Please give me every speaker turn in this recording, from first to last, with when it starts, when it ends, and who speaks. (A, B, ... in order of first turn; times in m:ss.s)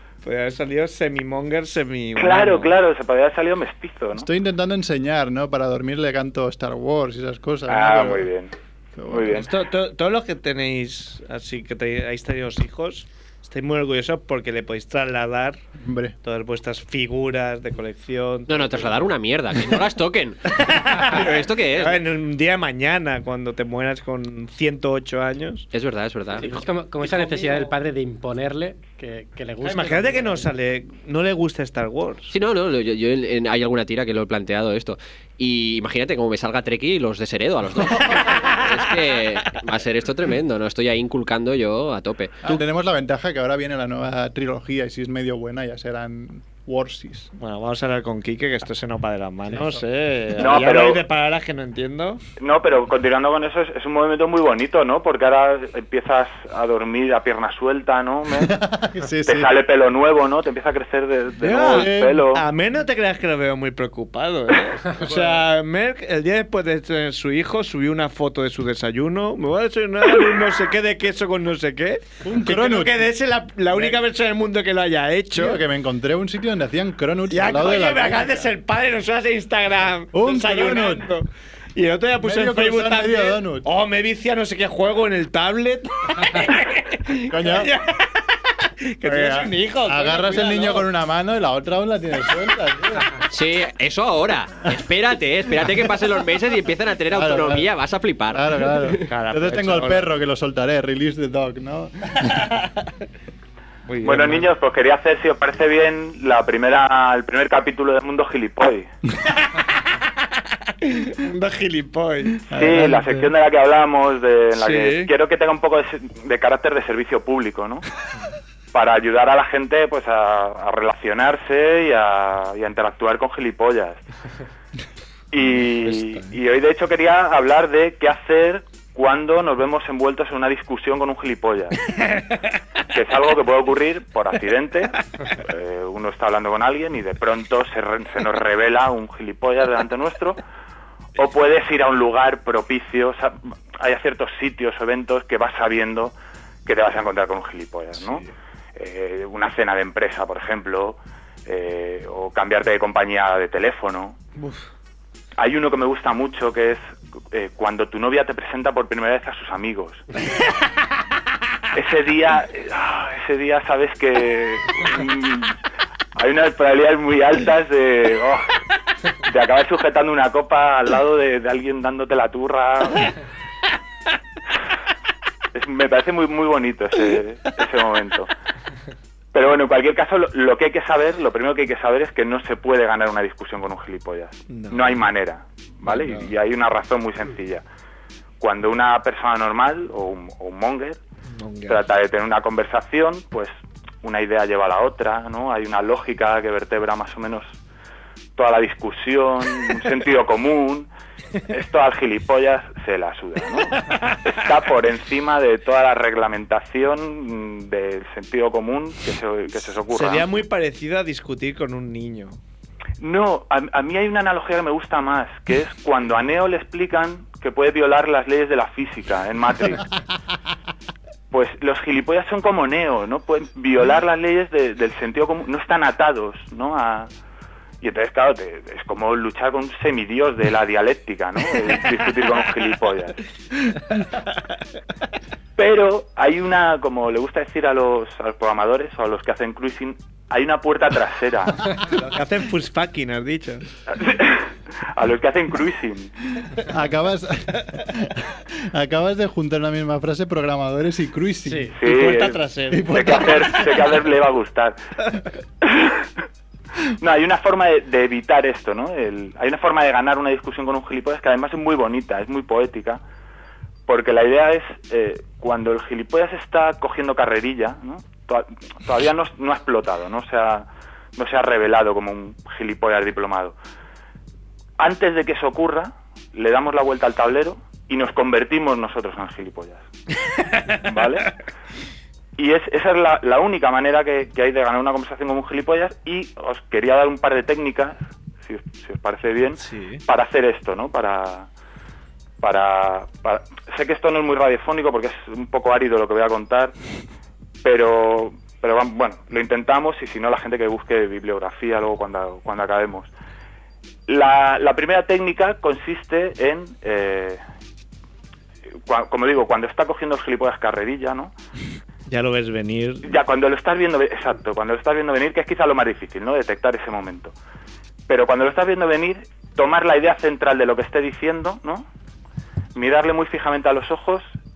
0:00.2-0:02.7 A
0:02.2-0:04.3 B
0:04.1-0:08.3 C
0:07.7-0:08.5 B
0:09.0-0:09.4 C
0:09.1-0:09.5 B
0:09.3-0:15.6 A
0:15.8-0:16.2 C
0:16.2-0:19.0 A
0:18.5-0:22.0 D
0:20.5-0:25.7 A
0:25.7-0:26.6 D
0:26.4-0:30.5 E
0:26.5-0:27.7 A
0:29.6-0:32.3 A
0:32.3-0:42.5 D
0:38.2-0:38.9 A
0:42.4-0:47.3 C
0:47.4-0:52.2 A
0:50.4-0:51.0 B
0:52.4-0:58.5 B
0:58.3-0:59.5 C
0:59.3-1:02.4 B
1:01.4-1:15.6 A
1:01.7-1:02.3 C
1:05.0-1:05.4 C
1:12.2-1:13.1 C
1:15.3-1:18.5 C
1:17.3-1:30.9 A
1:20.1-1:21.1 C
1:22.2-1:23.7 C
1:27.3-1:27.7 C
1:29.0-1:33.2 C
1:33.3-1:39.0 D
1:37.1-1:37.7 C
1:38.3-1:42.4 C
1:39.1-1:40.1 A
1:43.9-1:44.5 A
1:44.0-1:48.9 B
1:49.4-1:52.4 A
1:52.5-1:53.3 C
1:52.5-1:57.9 B
1:54.6-1:55.1 A
1:58.7-2:04.0 B
2:05.3-2:11.8 B
2:05.5-2:06.4 A
2:12.0-2:12.6 A
2:12.9-2:20.4 B
2:21.2-2:26.1 B
2:26.7-2:34.2 B
2:28.0-2:28.3 A
2:34.4-2:34.6 A
2:35.4-2:40.0 B
2:41.7-2:45.6 B
2:46.2-2:48.4 B
2:49.2-2:53.1 B
2:55.5-2:58.3 B
2:59.3-3:07.6 B
3:04.5-3:05.1 A
3:05.8-3:06.3 A
3:08.4-3:11.0 B
3:11.4-3:11.8 A
3:11.7-3:17.6 B
3:18.4-3:20.9 B
3:21.5-3:30.3 B
3:23.7-3:24.4 A
3:29.8-3:32.4 A
3:33.0-3:39.8 B
3:41.3-3:47.1 B
3:47.8-3:53.2 B
3:53.9-3:54.4 A
3:55.6-4:01.7 B
4:01.8-4:03.7 A
4:03.9-4:06.1 B
4:06.6-4:11.8 C
4:11.5-4:11.7 E
4:11.8-4:13.7 A
4:11.8-4:12.4 B
4:12.7-4:13.9 C
4:12.9-4:14.8 B
4:15.6-4:16.1 B
4:16.9-4:23.0 B
4:23.9-4:33.6 B
4:34.8-4:39.9 B
4:40.4-4:40.8 A
4:40.8-4:41.3 B
4:42.4-4:51.5 B
4:49.6-4:50.0 A
4:52.4-4:56.8 B
4:57.6-5:03.1 B
5:04.1-5:07.4 B
5:08.9-5:11.3 B
5:12.1-5:13.2 A
5:13.0-5:17.3 B
5:18.1-5:21.9 B
5:22.8-5:24.3 B